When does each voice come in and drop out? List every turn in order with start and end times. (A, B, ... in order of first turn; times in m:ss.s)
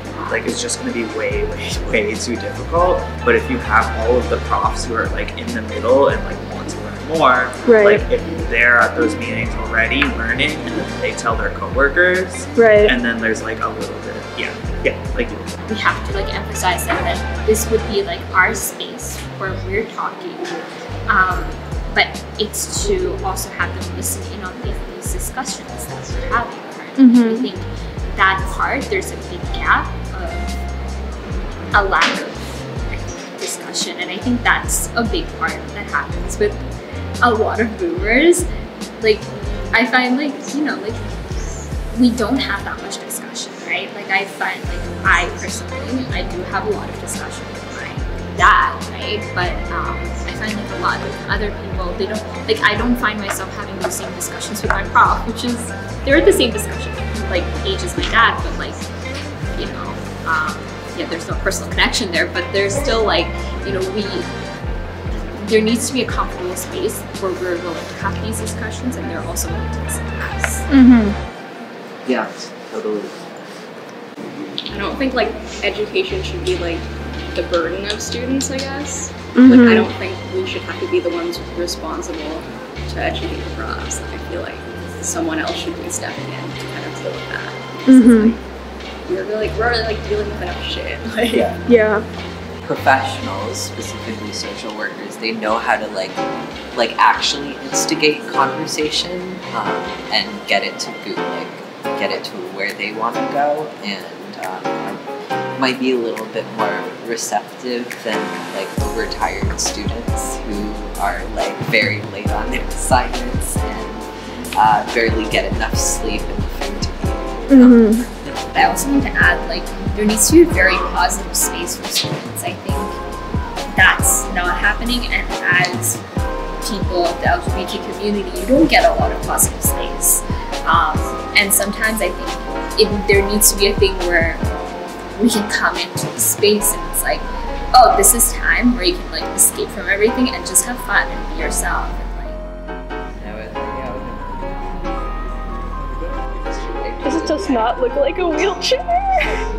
0:00.3-0:15.5 A
0:07.7-0:08.0 B
0:12.6-0:12.9 B
0:15.7-0:20.5 C
0:21.1-0:30.6 C
0:27.0-0:27.5 B
0:31.7-0:36.6 C
0:37.2-0:38.5 C
0:39.0-0:41.0 C
0:41.9-0:58.8 C
0:59.6-1:04.3 C
1:05.4-1:10.7 C
1:10.7-1:11.2 B
1:12.0-1:13.3 D
1:14.7-1:28.4 E
1:19.4-1:19.9 B
1:27.9-1:28.4 B
1:29.1-1:31.5 E
1:31.7-1:32.0 B
1:32.6-1:45.0 D
1:45.6-1:58.5 D
1:57.6-1:58.0 B
1:58.5-2:03.0 C
2:03.7-2:06.0 C
2:06.6-2:14.4 C
2:15.2-2:22.4 C
2:23.2-2:24.6 D
2:26.4-2:27.9 D
2:27.0-2:29.4 B